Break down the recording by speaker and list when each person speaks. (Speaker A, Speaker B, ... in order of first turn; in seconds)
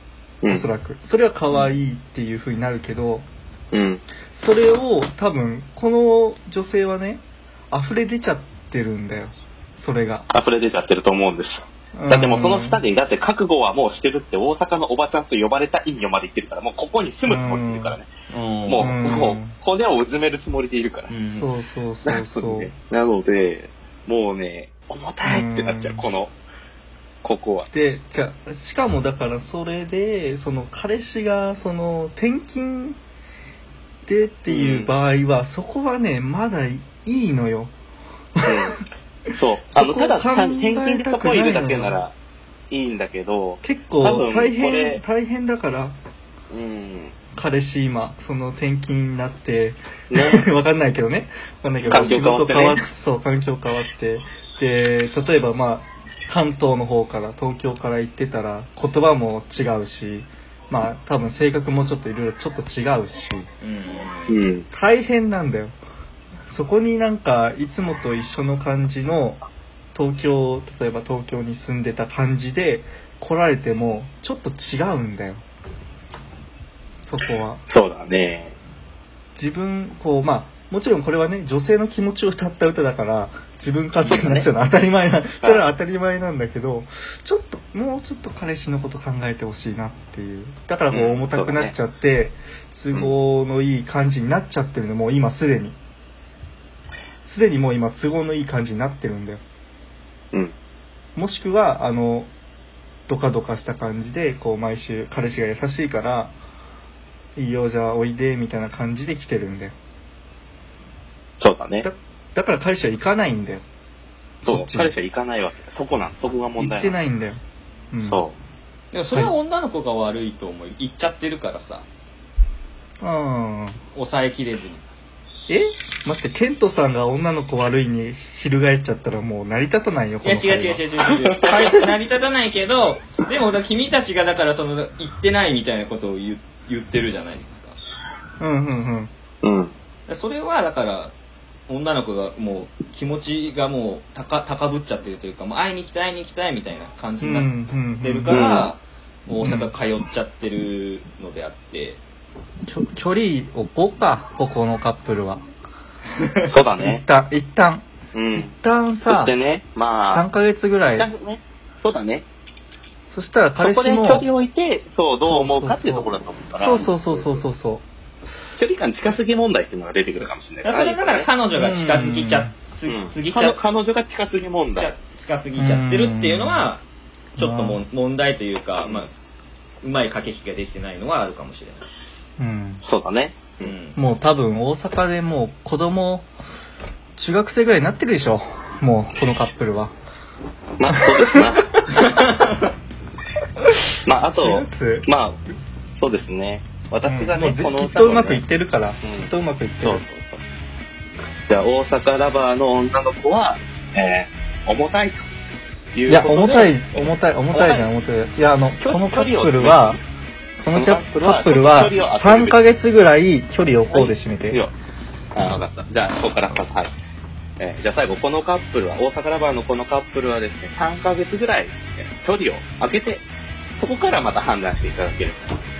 Speaker A: 0.4-0.7, 3.7-4.0, 10.3-18.1, 18.7-21.1, 22.1-26.3, 27.2-27.7, 34.5-34.9, 38.5-38.8, 39.4-42.1, 42.7-45.0, 46.5-47.2, 50.1-50.5, 51.9-52.9, 64.3-64.7, 77.7-78.5, 84.0-84.5, 90.9-91.8, 111.4-111.9, 114.5-117.0, 118.0-118.4, 139.4-139.7, 148.3-148.7, 156.5-157.0, 158.1-158.5, 159.0-160.2, 160.9-162.2, 163.6-167.5, 168.6-171.3, 172.9-174.9, 178.8-179.1, 182.8-183.7, 190.8-191.7, 194.1-195.4, 196.0-198.4, 199.0-200.4, 201.5-205.3, 205.9-207.9, 208.8-210.0, 210.7-212.6, 213.9-214.7, 215.3-216.9, 217.6-223.2, 223.8-225.4
Speaker B: 0.5-3.3, 4.3-10.3, 11.9-12.8, 17.3-18.0, 18.8-19.6, 21.3-22.7, 25.2-26.1, 27.7-33.0, 34.1-37.7, 38.4-38.7, 39.7-42.0, 43.6-46.0, 47.3-63.5, 64.7-65.7, 66.5-69.4, 70.0-75.4, 77.1-77.6, 79.4-95.8, 97.3-99.4, 101.2-102.3, 103.1-106.4, 107.4-109.7, 111.8-113.6, 114.4-114.9, 116.6-117.4, 117.9-118.2, 123.0-123.8, 125.5-130.8, 138.4-139.1, 147.2-148.6, 149.4-149.7, 152.7-155.4, 156.8-157.8, 158.4-159.3, 160.1-161.1, 163.1-164.3, 165.3-167.8, 171.5-172.5, 175.6-176.7, 177.4-177.8, 182.4-182.8, 183.9-186.3, 187.2-189.9, 190.9-191.5, 194.3-195.1, 197.1-200.1, 206.1-210.0, 210.6-214.6
Speaker C: 18.3-18.9, 21.1-21.5, 63.6-64.4, 118.9-121.8, 123.9-124.8, 130.2-137.8, 140.1-141.1, 141.7-152.0, 170.6-173.6, 174.8-176.8, 177.4-179.1, 179.8-181.9, 183.6-184.0, 191.8-192.7